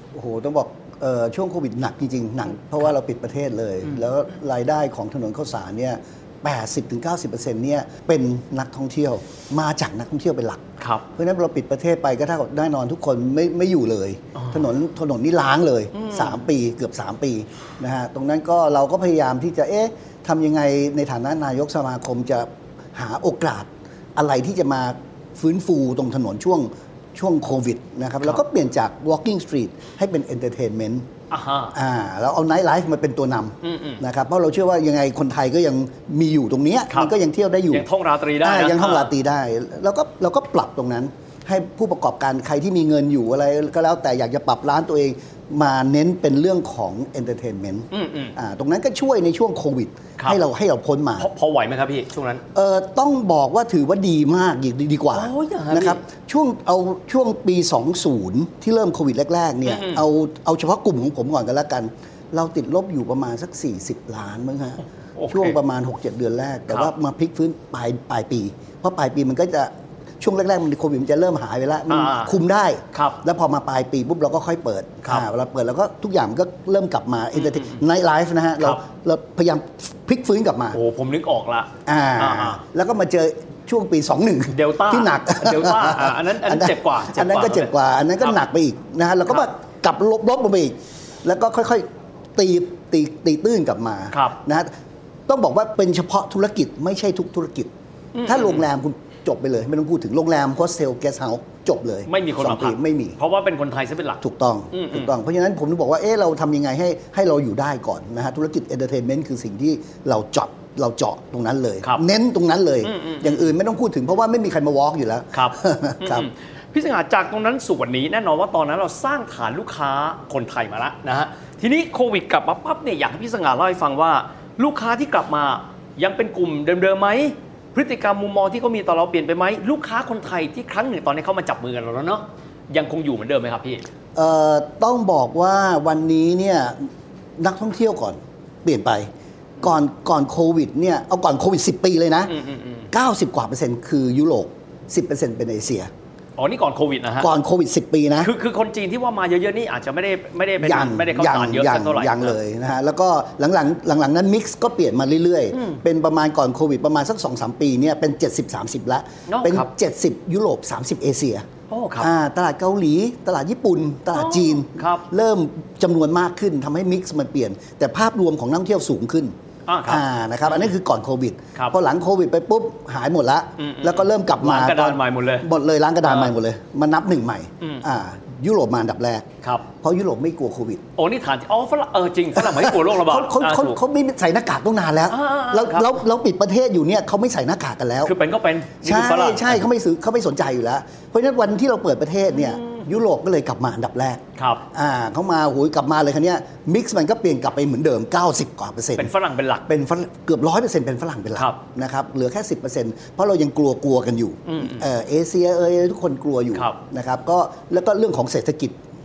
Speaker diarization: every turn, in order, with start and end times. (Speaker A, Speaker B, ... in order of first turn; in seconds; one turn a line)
Speaker A: 0.1-31.1
Speaker B: 10.8-11.1
Speaker B: 14.4-14.6
Speaker B: 15.9-16.4
Speaker B: 31.3-31.8
Speaker A: 31.7-37.9
Speaker B: 33.6-34.0
Speaker B: 36.9-37.1
Speaker B: 37.7-39.1
Speaker A: 38.4-51.3
Speaker B: 47.9-48.4
Speaker B: 51.2-52.4
Speaker A: 52.5-80.8
Speaker B: 55.1-56.0
Speaker B: 59.7-60.0
Speaker B: 65.2-65.6
Speaker B: 71.9-72.4
Speaker B: 72.9-73.2
Speaker B: 77.3-77.8
Speaker B: 80.7-82.6
Speaker A: 81.9-91.8
Speaker B: 84.5-88.4
Speaker A: 92.4-94.7
Speaker B: 94.1-94.4
Speaker A: 95.3-97.7
Speaker B: 98.1-98.7
Speaker A: 98.3-103.2
Speaker B: 102.1-105.1
Speaker A: 104.2-116.3
Speaker B: 112.8-113.5
Speaker B: 115.3-133.9
Speaker A: 134.2-139.1
Speaker A: 139.6-142.3
Speaker B: 142.3-142.9
Speaker A: 142.9-145.9
Speaker B: 146.4-147.3
Speaker A: 147.2-148.3
Speaker B: 148.2-152.4
Speaker A: 150.6-161.4
Speaker B: 155.5-155.8
Speaker B: 159.3-159.7
Speaker B: 161.7-162.1
Speaker A: 162.0-169.3
Speaker B: 164.1-165.1
Speaker B: 169.7-170.7
Speaker A: 169.9-179.3
Speaker B: 173.6-175.5
Speaker B: 176.1-176.3
Speaker A: 179.8-180.8
Speaker B: 181.0-183.8
Speaker A: 182.4-188.1
Speaker B: 185.1-186.0
Speaker B: 188.0-189.6
Speaker A: 188.8-199.1
Speaker B: 192.3-192.8
Speaker B: 194.4-194.6
Speaker B: 199.0-199.7
Speaker A: 199.7-208.8
Speaker B: 204.5-204.8